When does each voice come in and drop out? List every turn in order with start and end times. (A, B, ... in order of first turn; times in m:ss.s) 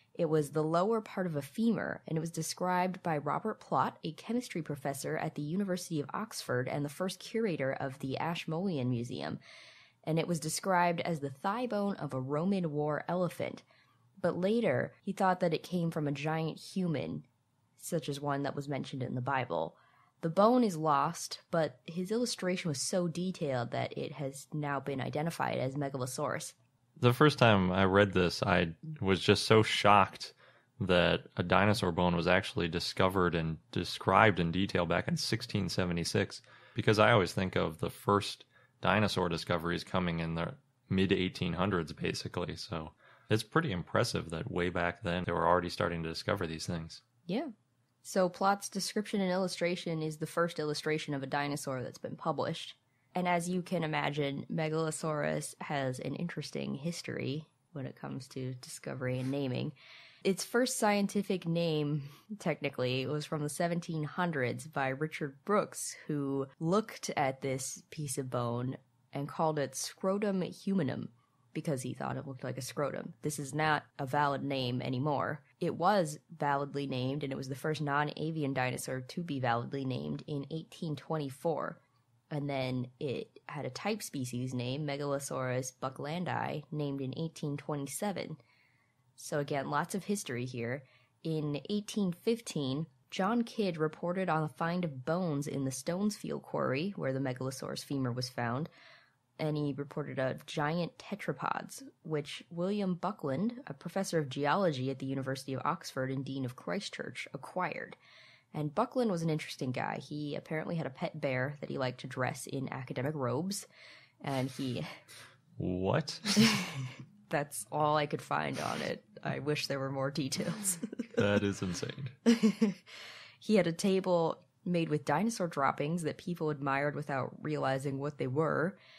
0:00.1-0:09.4 A
0:10.0-0:13.6 A
0:14.2-0:17.2 A
0:17.8-0:26.6 A
0:27.0-0:47.0 B
0:48.0-1:21.8 A
1:22.3-1:28.4 A
1:29.2-1:38.7 A
1:39.4-1:48.0 A
1:48.5-1:53.7 A
1:54.2-1:54.9 A
1:55.6-1:56.4 B
1:57.3-2:01.1 A
2:01.1-2:02.1 B
2:02.2-2:02.8 A
2:03.4-2:08.8 A